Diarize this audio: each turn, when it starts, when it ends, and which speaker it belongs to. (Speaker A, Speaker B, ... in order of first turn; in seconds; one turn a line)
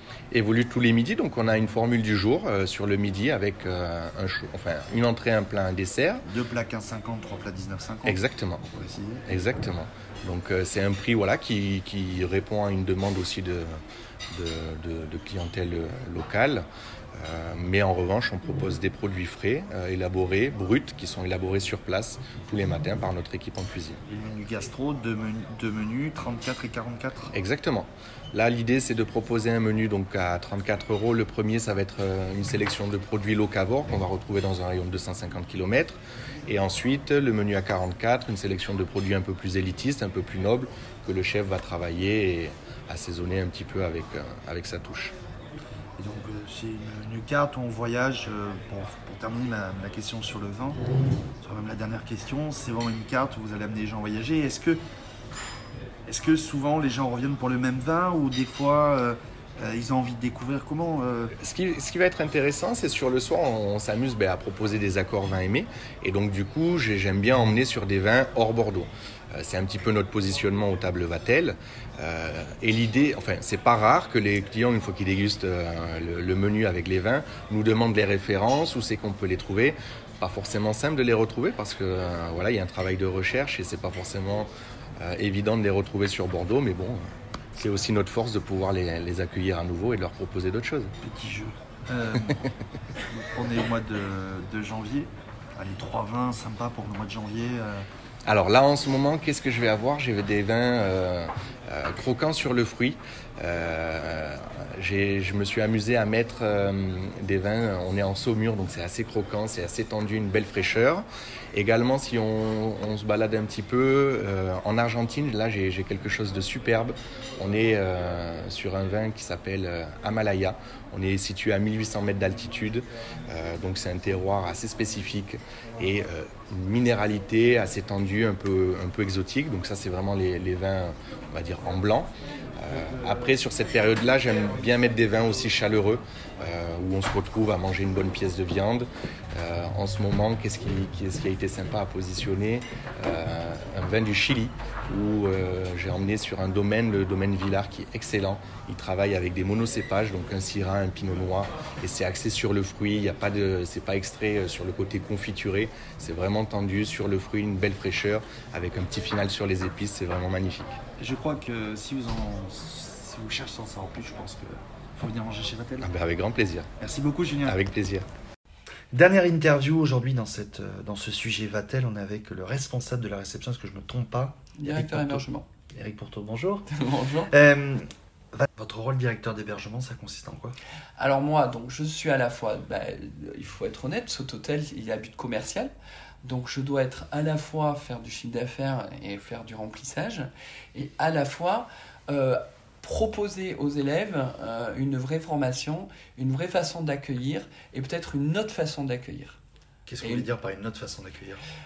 Speaker A: 0.3-6.2
Speaker B: 6.2-8.2
Speaker A: 8.0-8.7
Speaker B: 8.7-9.2
Speaker A: 9.2-13.7
Speaker A: 14.3-16.7
Speaker A: 17.2-24.0
Speaker B: 24.1-27.3
Speaker A: 27.3-45.2
Speaker B: 46.0-50.8
Speaker B: 51.4-54.8
Speaker B: 56.1-61.3
Speaker A: 61.4-84.5
Speaker A: 85.0-87.0
Speaker A: 87.5-90.9
Speaker B: 91.0-92.5
Speaker B: 93.1-97.9
Speaker A: 98.2-160.8
Speaker B: 161.0-165.9
Speaker A: 165.8-166.7
Speaker B: 166.8-167.6
Speaker A: 167.4-168.1
Speaker B: 168.9-176.7
Speaker C: 174.6-175.5
Speaker C: 176.7-177.3
Speaker B: 177.3-177.8
Speaker B: 178.3-180.6
Speaker C: 181.0-185.7
Speaker C: 186.2-199.4
Speaker B: 199.9-201.4
Speaker C: 200.0-200.3